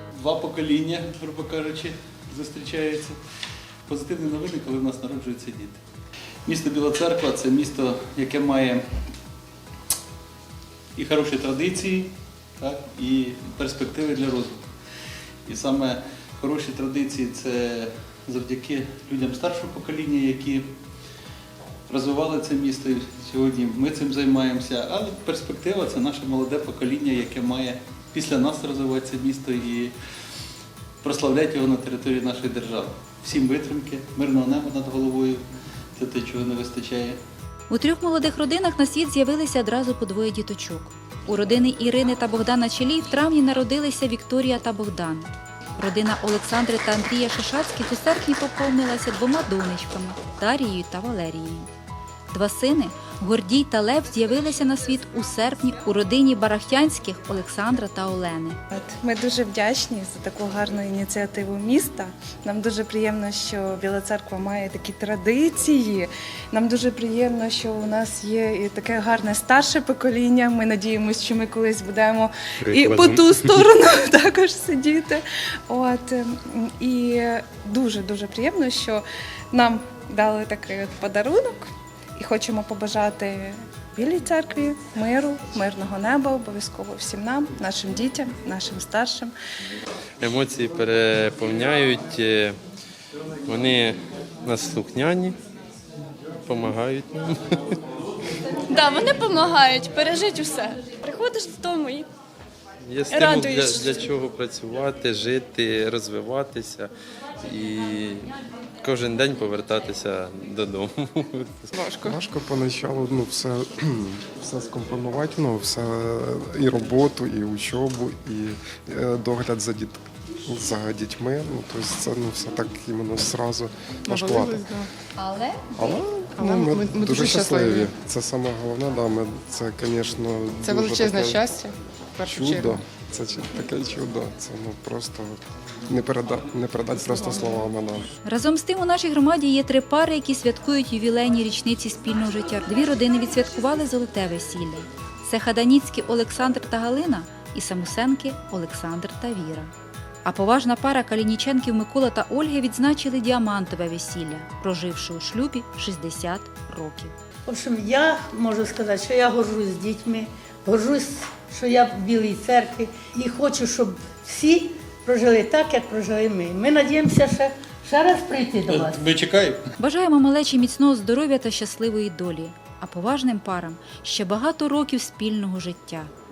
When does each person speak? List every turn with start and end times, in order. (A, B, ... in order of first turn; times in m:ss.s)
0:00.2-0:03.1 A
0:03.9-0:05.8 A
0:06.4-0:08.8 A
0:11.0-0:14.6 A
0:15.4-0:20.6 A
0:21.9-0:29.9 A
0:31.0-0:35.4 A
0:36.0-0:37.2 A
0:37.7-0:51.7 B
0:52.3-0:58.6 B
0:58.7-1:29.3 C
1:12.6-1:13.6 D
1:30.2-1:32.6 D
1:33.5-1:35.4 D
1:36.4-1:37.8 D
1:38.7-1:42.1 E
1:42.8-1:48.3 D
1:43.1-1:44.0 E
1:48.8-1:51.7 D
1:52.0-2:04.7 F
2:04.0-2:04.9 G
2:05.7-2:11.5 F
2:06.4-2:07.9 G
2:10.6-2:12.8 G
2:12.3-2:18.1 F
2:18.2-2:29.7 B
2:30.2-2:37.1 B
2:37.4-2:49.0 H
2:48.7-2:49.6 A
2:49.8-2:56.1 B